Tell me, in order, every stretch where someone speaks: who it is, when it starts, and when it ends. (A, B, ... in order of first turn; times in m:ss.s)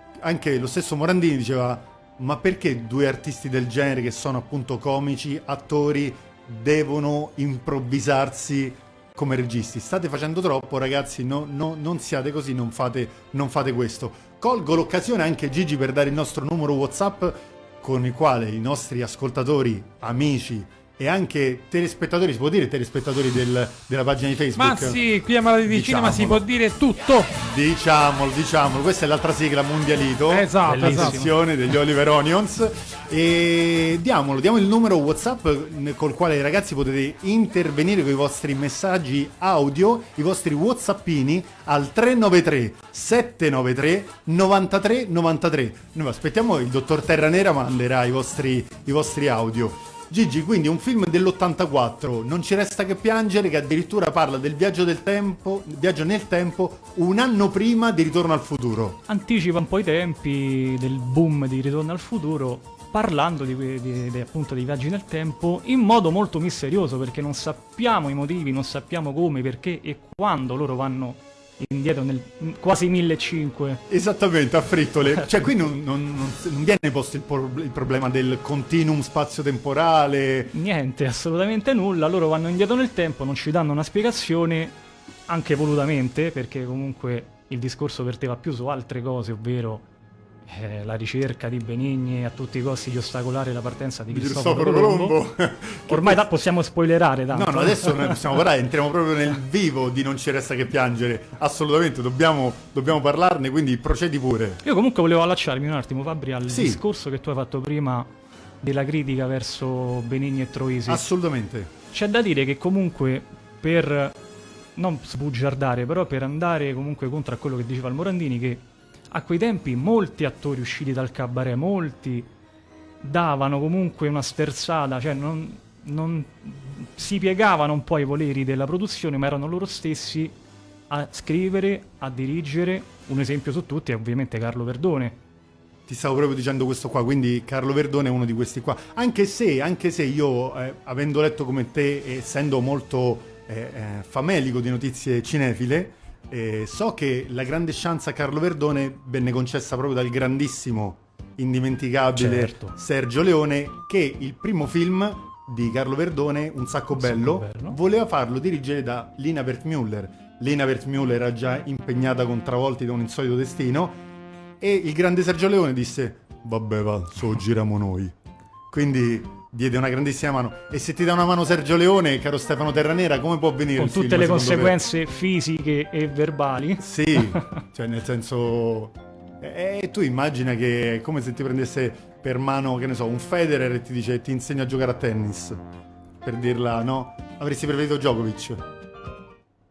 0:00.2-0:25.0 A
0:24.6-0:27.3 B
0:25.7-0:26.4 A
0:27.4-0:59.0 A
0:30.3-0:31.2 B
0:30.6-0:31.3 C
0:59.1-1:13.8 C
1:13.9-1:20.5 A
1:20.5-1:24.8 C
1:25.3-1:29.9 C
1:30.5-1:35.2 C
1:34.1-1:36.2 A
1:35.9-1:38.4 C
1:37.3-1:44.6 A
1:44.6-1:48.1 C
1:46.5-1:46.8 A
1:48.6-1:51.0 C
1:50.9-1:51.7 A
1:51.9-1:54.2 C
1:54.8-2:02.3 C
2:03.0-2:10.3 C
2:10.9-2:15.2 C
2:15.9-2:44.0 A
2:32.1-2:32.8 C
2:36.9-2:37.8 C
2:44.6-2:48.1 A
2:48.7-2:54.8 A
2:53.8-2:57.5 C
2:56.8-3:05.6 A
3:06.2-3:08.6 A